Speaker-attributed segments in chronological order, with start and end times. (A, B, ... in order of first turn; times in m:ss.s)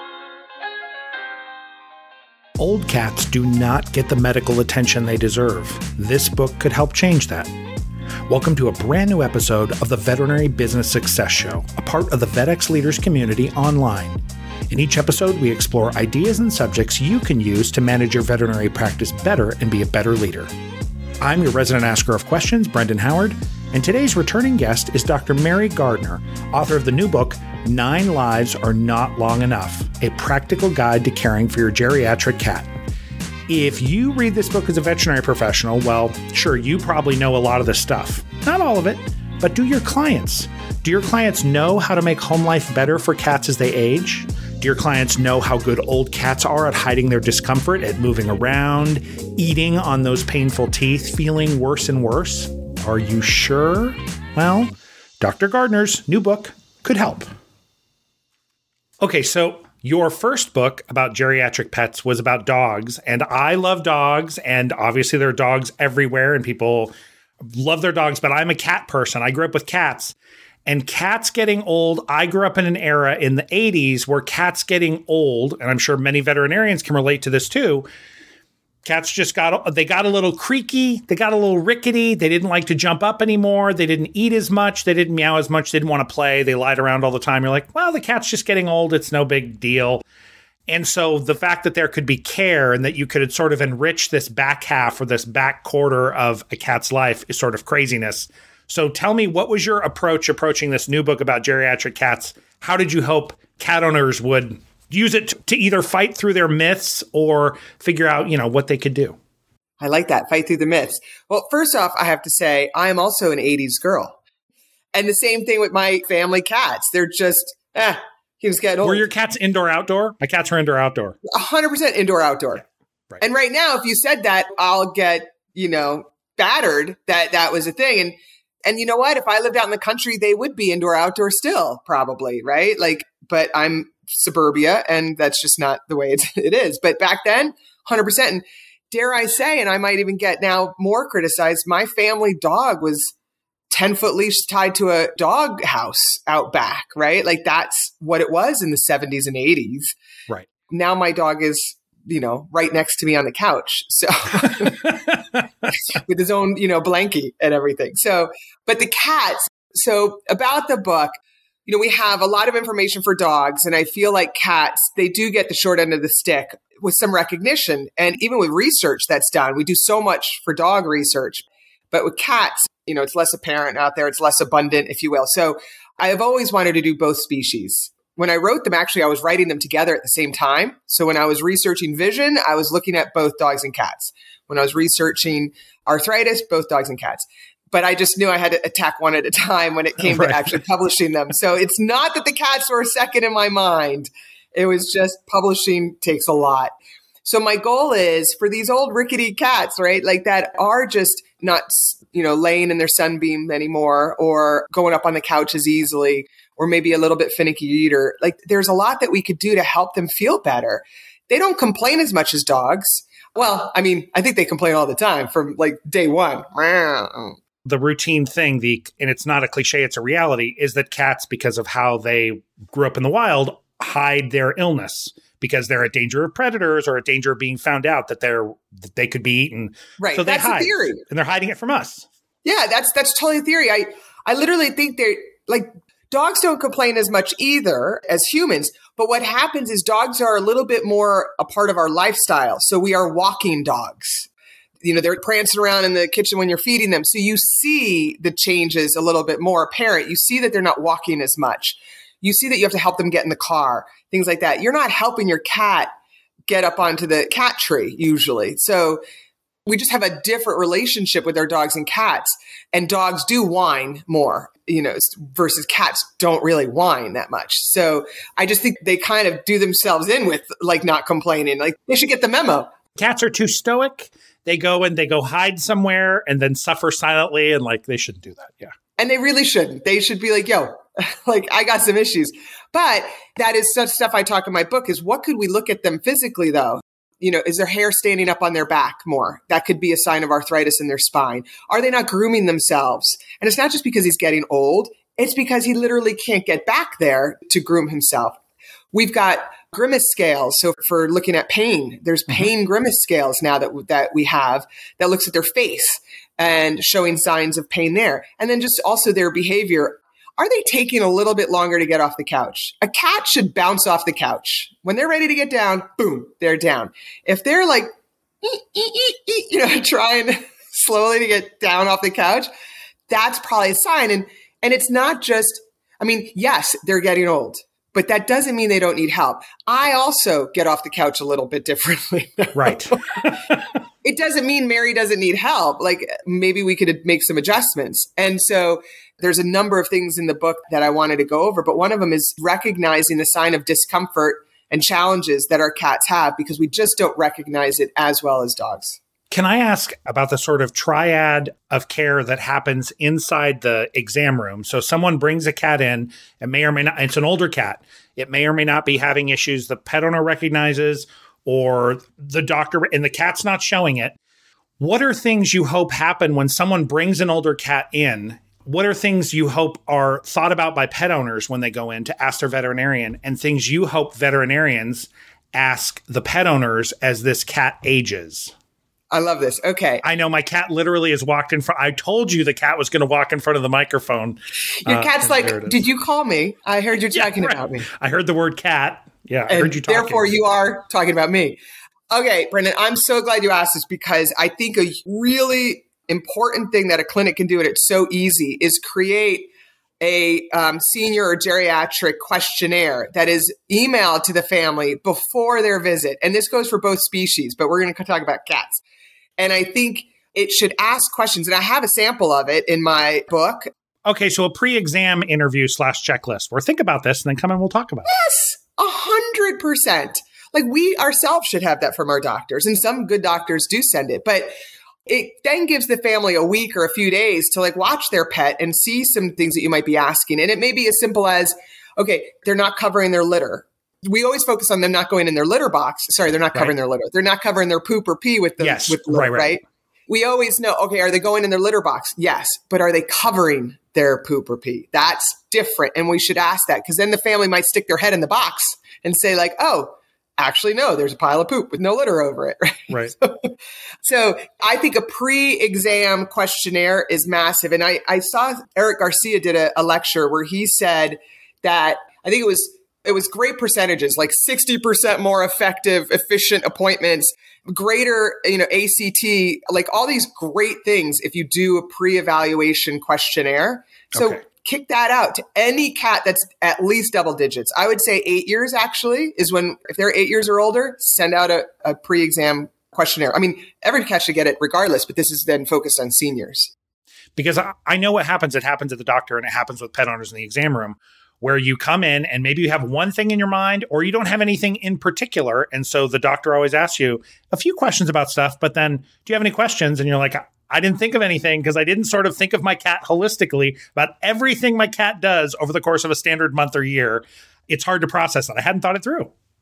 0:02.6-0:07.5 A
0:08.3-0:20.5 A
0:21.2-0:32.7 A
0:33.5-0:57.3 A
0:59.0-1:06.9 A
1:07.4-1:10.2 A
1:10.7-1:17.9 A
1:18.8-1:30.0 A
1:30.7-1:49.2 A
1:49.8-1:54.2 B
1:55.0-1:59.1 B
1:58.8-2:01.2 A
2:01.3-2:02.6 B
2:03.2-2:23.1 B
2:23.7-2:29.9 B
2:30.7-2:35.0 B
2:35.7-2:41.1 B
2:41.7-3:16.7 B
3:10.0-3:10.6 A
3:17.2-3:37.4 B
3:37.6-3:52.1 A
3:50.0-3:51.0 B
3:52.4-4:04.3 B
4:04.8-4:15.9 B
4:16.5-4:19.0 B
4:19.7-4:32.7 B
4:33.0-4:38.7 A
4:39.0-4:58.4 B
4:58.9-5:17.9 B
5:18.4-5:22.5 B
5:23.1-5:33.2 B
5:32.6-5:33.6 A
5:34.0-5:49.0 B
5:49.3-6:04.2 A
6:04.8-6:18.5 A
6:19.1-6:20.0 B
6:20.0-6:25.8 A
6:24.8-6:27.9 B
6:27.2-6:30.4 A
6:29.5-6:31.6 B
6:32.1-6:39.5 B
6:40.0-6:48.8 B
6:49.4-6:53.7 B
6:54.0-6:58.1 A
6:58.0-7:04.5 B
7:05.1-8:06.7 B
7:18.6-7:19.6 A
8:07.4-8:29.3 A